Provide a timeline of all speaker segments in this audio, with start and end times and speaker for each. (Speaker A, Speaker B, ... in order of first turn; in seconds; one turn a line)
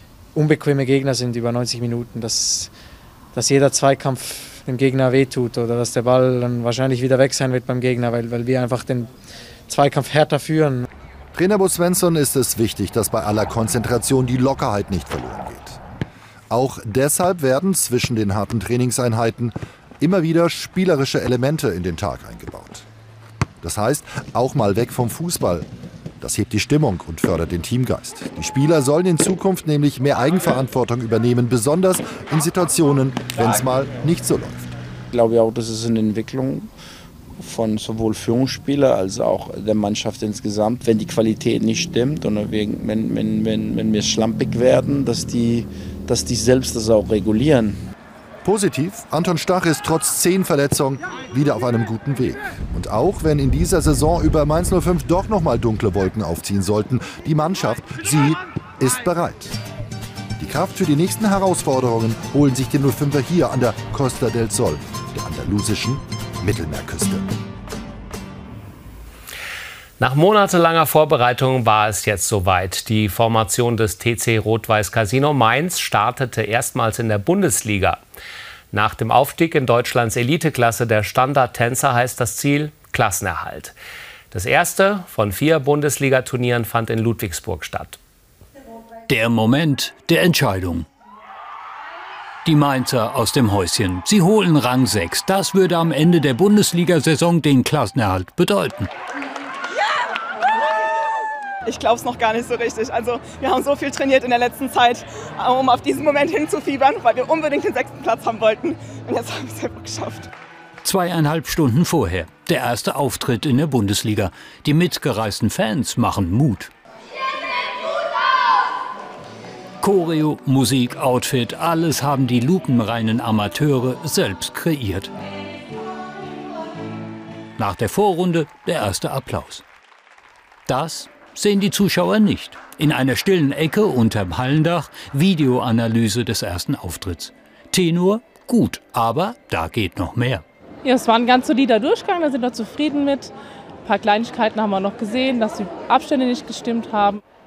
Speaker A: 0.3-2.7
Speaker A: 3.3-9.1
Speaker A: 9.7-10.8
Speaker B: 11.3-15.8
Speaker B: 16.5-22.8
Speaker B: 23.6-25.6
Speaker B: 26.2-34.7
Speaker C: 35.1-36.7
Speaker C: 37.4-47.8
Speaker B: 48.4-59.6
Speaker B: 60.4-67.2
Speaker D: 70.0-78.0
Speaker D: 78.7-83.7
Speaker D: 84.3-88.0
Speaker E: 89.1-90.9
Speaker E: 92.4-98.9
Speaker F: 101.7-110.3
Speaker E: 110.8-116.7
Speaker E: 119.8-125.1
Speaker E: 127.6-129.6
Speaker E: 130.7-140.4
Speaker G: 140.8-143.3
Speaker G: 143.8-147.2